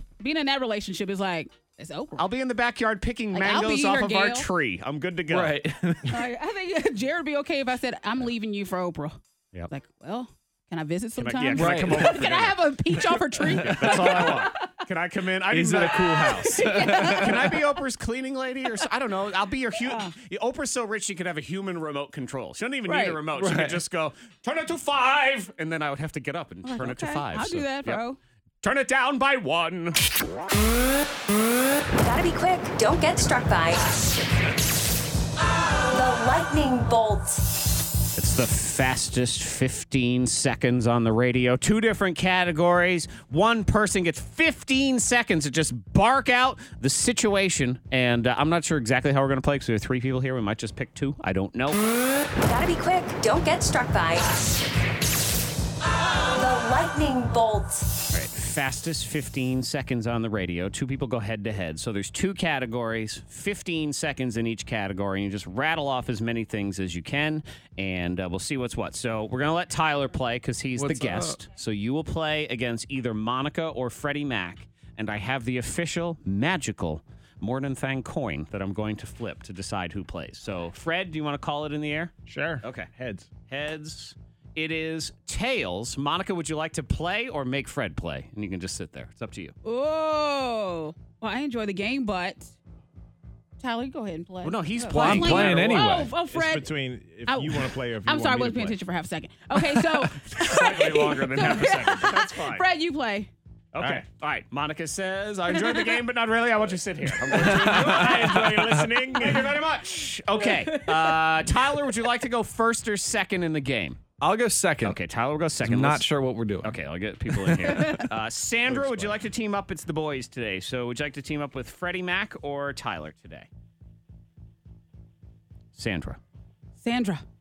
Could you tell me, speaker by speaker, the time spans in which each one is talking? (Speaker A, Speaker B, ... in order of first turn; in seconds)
Speaker A: 0.2-2.2, 3.3-4.5, 6.1-9.2, 9.7-14.8, 16.4-17.6, 19.8-20.1, 22.9-23.2, 26.6-28.2, 89.6-92.5, 93.6-96.7, 97.3-103.3, 110.4-111.2, 126.8-127.2
Speaker B: 2.2-5.6, 11.2-12.6, 13.6-28.0, 28.6-30.0, 38.2-51.8, 58.1-82.9, 83.5-89.5, 94.4-95.9, 100.3-102.6, 103.7-108.5, 109.2-114.0, 114.8-116.1, 116.6-123.5, 125.8-126.2
Speaker C: 5.3-6.2, 11.6-12.3, 13.4-14.3, 15.5-17.6, 23.4-23.8, 70.8-71.4, 94.9-96.1, 107.3-108.8, 114.2-115.0, 115.6-116.8, 117.3-118.0
Speaker D: 32.0-34.3, 35.8-37.6, 52.4-54.7, 56.2-58.0
Speaker E: 82.3-83.3, 96.3-98.8, 107.4-109.6, 118.7-119.2